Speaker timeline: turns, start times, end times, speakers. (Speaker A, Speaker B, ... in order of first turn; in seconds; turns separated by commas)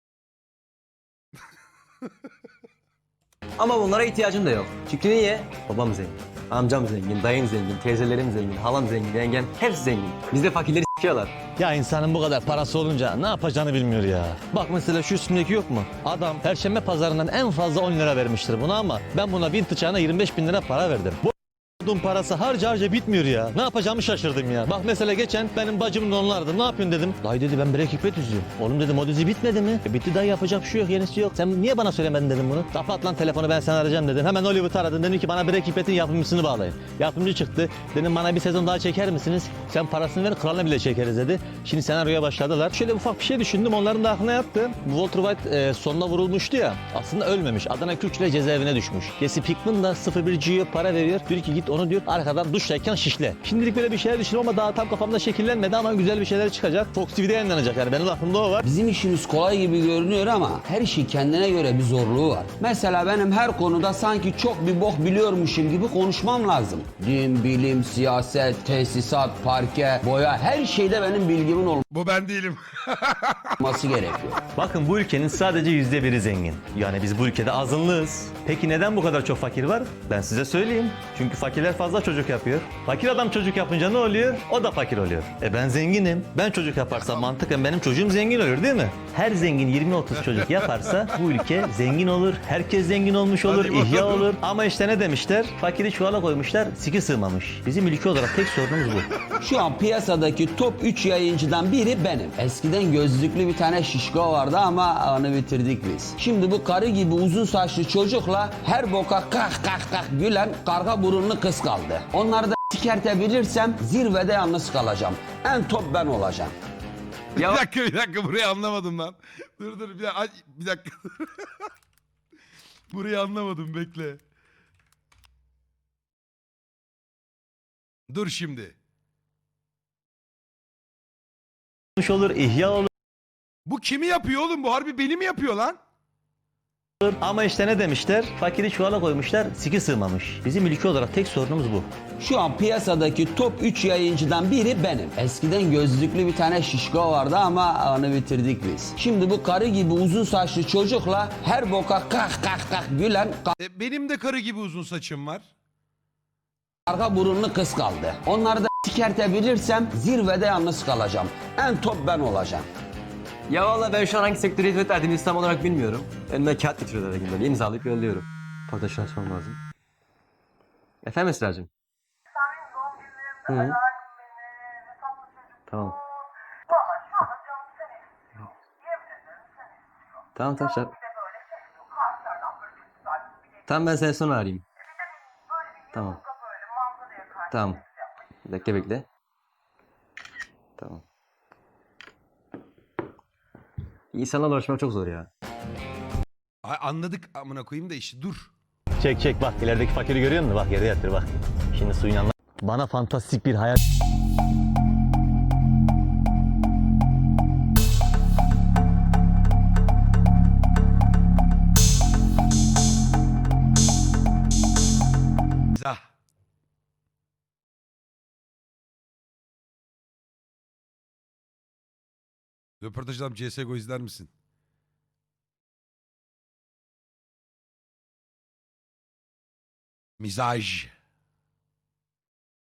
Speaker A: 3.6-11.4, Speaker B: 11.6-58.6, Speaker C: 58.6-71.8, Speaker D: 71.9-73.5, Speaker C: 73.6-74.4, Speaker B: 74.5-99.1, Speaker D: 93.4-94.3, Speaker C: 99.4-116.5, Speaker D: 117.4-121.6, Speaker D: 122.9-124.2, Speaker D: 128.1-128.8, Speaker B: 132.0-132.9, Speaker D: 133.7-135.8, Speaker B: 137.0-141.9, Speaker C: 142.2-153.6, Speaker D: 153.6-155.5, Speaker C: 156.9-162.7, Speaker A: 163.5-169.6, Speaker A: 171.0-171.7, Speaker A: 173.5-173.8, Speaker A: 175.7-176.0, Speaker A: 180.4-181.0, Speaker A: 183.7-184.6, Speaker A: 185.9-186.2, Speaker A: 187.5-187.8, Speaker A: 188.4-189.1, Speaker A: 190.8-191.0, Speaker A: 194.1-195.3, Speaker D: 196.6-198.5, Speaker B: 199.0-203.8, Speaker D: 222.8-224.3, Speaker D: 230.2-230.9